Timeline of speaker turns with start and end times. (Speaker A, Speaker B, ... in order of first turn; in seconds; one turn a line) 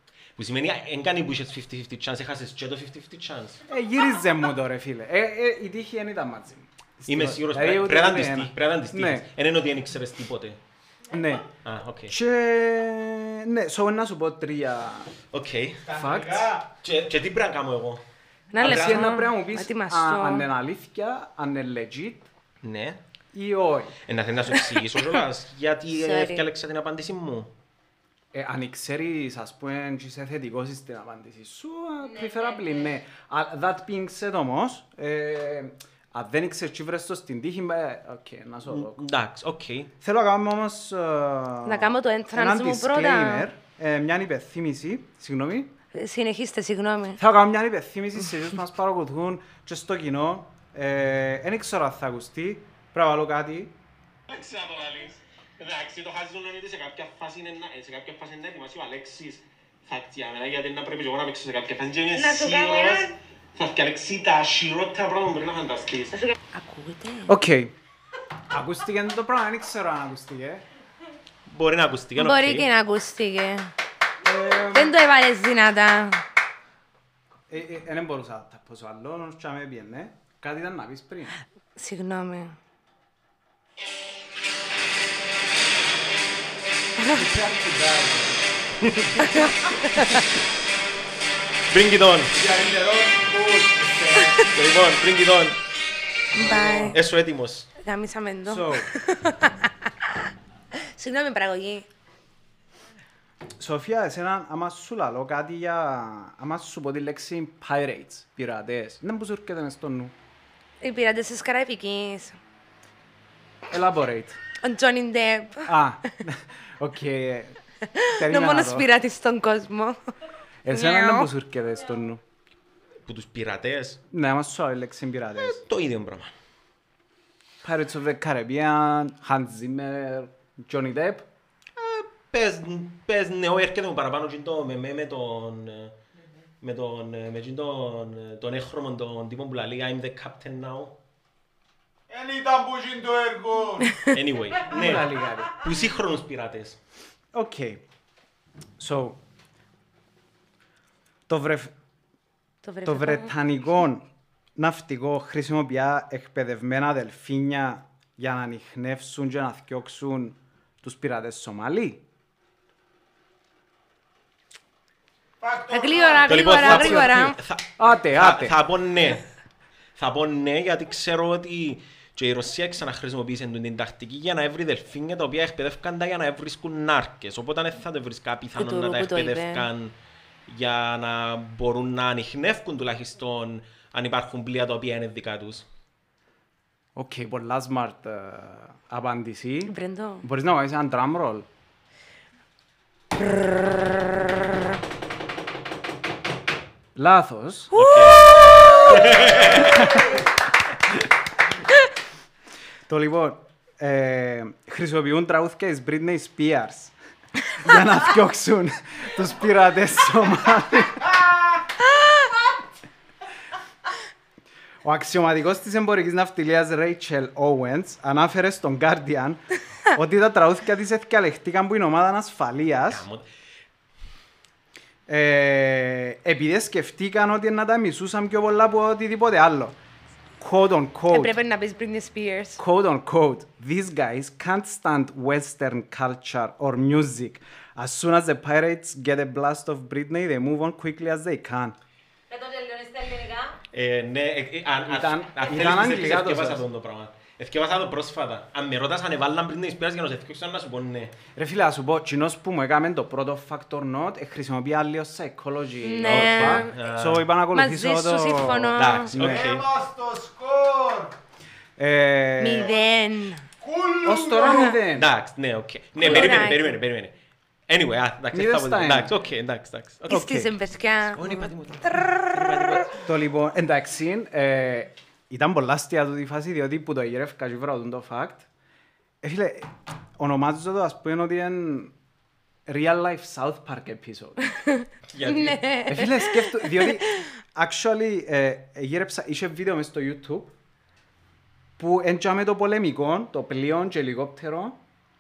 Speaker A: 0.4-3.6
Speaker B: 3.7-9.3
Speaker A: 7.1-10.6
Speaker B: 11.1-11.5
Speaker A: 11.6-12.2
Speaker B: 12.1-15.1
Speaker A: 15.3-15.9
Speaker C: 15.8-16.7
Speaker B: 15.9-16.6
Speaker A: 16.8-18.0
Speaker D: 18.5-20.5
Speaker A: 18.6-19.2
Speaker B: 18.6-22.3
Speaker A: 22.6-23.0
Speaker B: 23.3-24.0
Speaker A: 24.1-27.5
Speaker D: 25.9-26.5
Speaker B: 28.3-39.0
Speaker E: 32.1-32.8
Speaker A: 38.7-39.9
Speaker B: 40.0-45.7
Speaker D: 41.6-43.5
Speaker D: 45.9-47.2
Speaker B: 47.2-53.8
Speaker A: 54.3-66.3
Speaker D: 62.1-63.1
Speaker D: 66.5-67.4
Speaker B: 67.3-67.7
Speaker B: 68.5-70.7
Speaker A: 71.5-72.7
Speaker D: 72.2-73.7
Speaker B: 74.2-75.0
Speaker D: 74.7-76.2
Speaker B: 77.5-81.3
Speaker D: 81.8-82.6
Speaker C: 87.1-89.4
Speaker A: 88.8-89.3
Speaker D: 89.2-90.2
Speaker A: 91.7-92.3
Speaker C: 92.3-94.5
Speaker A: 94.5-95.6
Speaker D: 96.3-97.0
Speaker B: 96.3-97.0
Speaker A: 96.9-97.7
Speaker D: 97.8-100.2
Speaker B: 98.5-98.9
Speaker D: 100.8-101.9
Speaker B: 103.6-110.1
Speaker D: 110.8-112.4
Speaker B: 113.7-114.4
Speaker D: 114.6-115.7
Speaker B: 115.7-117.6
Speaker D: 117.9-120.0
Speaker B: 118.1-118.9
Speaker B: 120.7-122.2
Speaker D: 120.7-121.3
Speaker A: 123.1-124.0
Speaker B: 124.1-125.6
Speaker A: 125.3-126.3
Speaker B: 127.6-131.3
Speaker A: 131.8-136.0
Speaker A: 136.6-141.0
Speaker C: 142.1-144.1
Speaker A: 144.1-146.8
Speaker B: 144.7-145.6
Speaker B: 147.3-147.8
Speaker B: 148.8-149.2
Speaker B: 151.3-151.7
Speaker D: 152.6-153.3
Speaker B: 152.8-162.0
Speaker C: 165.4-166.6
Speaker D: 165.7-167.4
Speaker A: 166.3-169.3
Speaker B: 166.6-168.6
Speaker A: 170.0-179.9
Speaker D: 178.6-179.7
Speaker A: 180.5-185.7
Speaker B: 186.9-191.5
Speaker D: 189.7-190.2
Speaker D: 193.2-194.6
Speaker B: 196.9-197.8
Speaker A: 197.7-200.0
Speaker D: 197.8-199.2
Speaker B: 199.4-200.1
Speaker B: 202.9-206.9
Speaker B: 207.5-211.2
Speaker B: 214.8-223.1
Speaker A: 222.9-223.2
Speaker B: 225.1-229.8
Speaker B: 230.4-231.4
Speaker D: 231.1-232.6
Speaker B: 232.6-241.8
Speaker E: 242.3-243.6
Speaker A: 243.7-251.2
Speaker B: 244.9-246.6
Speaker B: 251.3-259.5
Speaker D: 255.8-256.7
Speaker A: 256.0-257.3
Speaker D: 257.5-259.1
Speaker A: 258.8-259.7
Speaker C: 259.2-261.1
Speaker B: 261.8-262.7
Speaker D: 262.4-263.5
Speaker C: 263.6-264.7
Speaker B: 264.0-265.1
Speaker D: 264.4-264.7
Speaker A: 264.9-267.1
Speaker D: 266.0-266.8
Speaker B: 266.0-266.5
Speaker A: 267.7-270.3
Speaker B: 268.3-269.1
Speaker D: 270.1-272.9
Speaker B: 270.1-270.5
Speaker A: 271.1-273.0
Speaker B: 273.0-278.5
Speaker B: 279.2-281.9
Speaker B: 282.7-284.5
Speaker D: 284.6-287.3
Speaker A: 285.1-285.7
Speaker B: 285.9-290.5
Speaker B: 291.8-294.8